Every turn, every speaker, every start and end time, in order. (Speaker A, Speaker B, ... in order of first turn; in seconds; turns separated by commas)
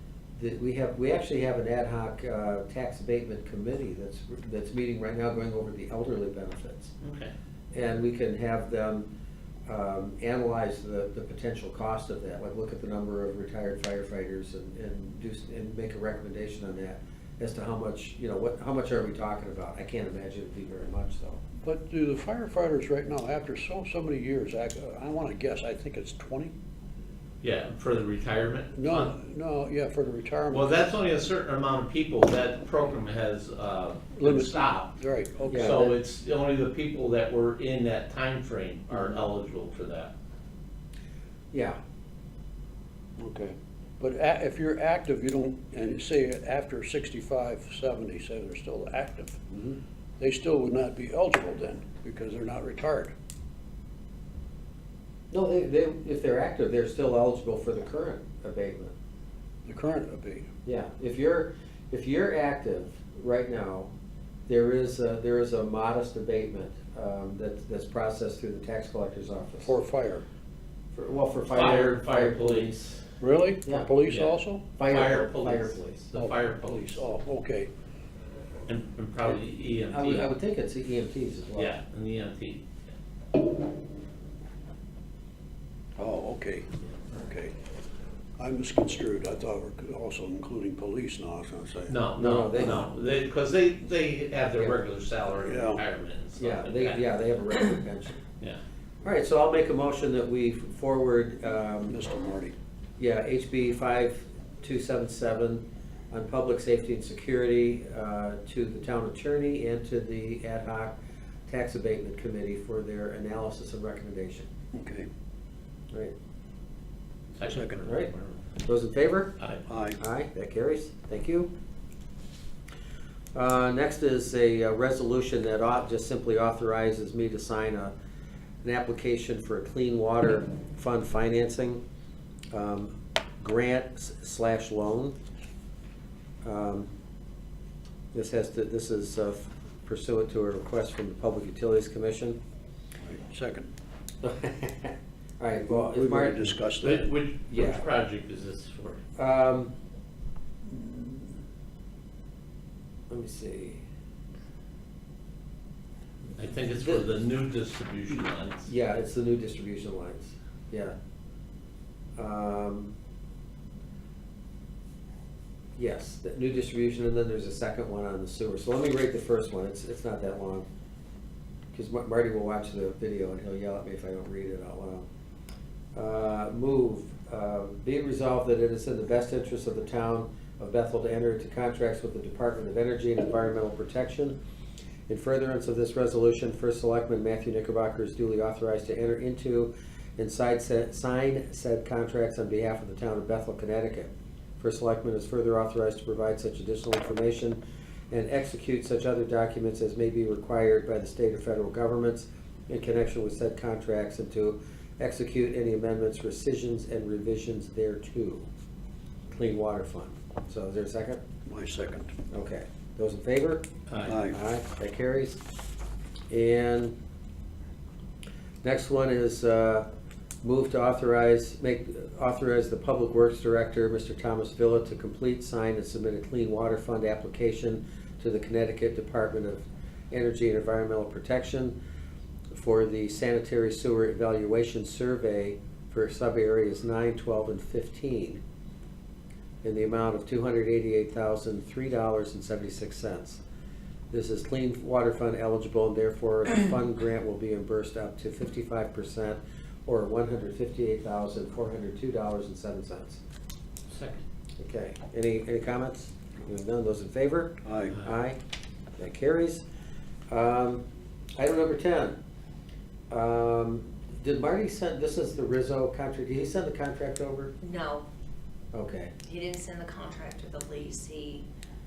Speaker A: 0.4-6.9, Speaker B: 7.0-7.3, Speaker A: 7.7-9.1, Speaker A: 9.7-21.4, Speaker C: 21.6-26.6, Speaker B: 27.4-29.1, Speaker C: 28.7-30.8, Speaker B: 30.5-34.9, Speaker C: 34.2-35.9, Speaker A: 35.5-36.0, Speaker B: 35.5-40.1, Speaker A: 41.5-41.8, Speaker C: 43.2-49.5, Speaker C: 50.2-53.1, Speaker A: 55.3-58.9, Speaker C: 59.6-60.5, Speaker A: 60.6-63.9, Speaker A: 64.5-69.7, Speaker C: 69.6-70.2, Speaker A: 70.9-73.0, Speaker B: 71.5-72.7, Speaker C: 73.2-74.7, Speaker A: 73.6-73.9, Speaker B: 74.1-77.0, Speaker A: 74.8-76.0, Speaker C: 76.2-77.7, Speaker B: 78.7-80.3, Speaker A: 79.9-81.8, Speaker B: 81.5-82.6, Speaker C: 86.0-87.5, Speaker C: 88.4-92.0, Speaker B: 91.9-97.0, Speaker A: 92.2-92.9, Speaker C: 95.4-95.8, Speaker A: 96.4-98.2, Speaker A: 99.0-102.0, Speaker C: 101.9-102.5, Speaker A: 103.0-111.0, Speaker A: 111.5-114.5, Speaker C: 114.7-115.1, Speaker B: 117.4-118.2, Speaker C: 117.4-117.8, Speaker A: 117.8-119.4, Speaker C: 119.7-120.0, Speaker A: 120.0-121.5, Speaker A: 123.3-127.9, Speaker A: 128.6-131.8, Speaker A: 132.5-135.2, Speaker A: 136.4-136.9, Speaker A: 138.1-142.4, Speaker C: 143.0-143.7, Speaker A: 144.2-146.6, Speaker C: 145.7-147.1, Speaker B: 146.8-149.0, Speaker A: 147.5-147.8, Speaker A: 149.2-149.7, Speaker C: 150.7-151.3, Speaker A: 153.1-153.8, Speaker B: 156.4-158.7, Speaker A: 158.7-161.0, Speaker A: 162.2-162.9, Speaker A: 165.8-170.7, Speaker A: 171.7-175.1, Speaker A: 176.0-184.4, Speaker A: 185.1-197.6, Speaker A: 198.1-208.5, Speaker A: 209.3-211.2, Speaker C: 211.5-212.1, Speaker A: 212.3-213.7, Speaker B: 213.9-214.2, Speaker C: 214.1-214.4, Speaker A: 214.3-215.4, Speaker A: 216.3-217.0, Speaker A: 218.6-219.9, Speaker A: 220.4-231.8, Speaker A: 232.5-238.4, Speaker A: 239.6-243.4, Speaker A: 244.1-253.2, Speaker B: 253.9-254.2, Speaker A: 254.6-258.4, Speaker C: 257.6-258.0, Speaker A: 259.0-259.6, Speaker A: 260.3-260.8, Speaker A: 261.4-262.2, Speaker A: 263.1-267.5, Speaker D: 267.6-268.1, Speaker A: 268.7-269.1, Speaker D: 269.2-271.5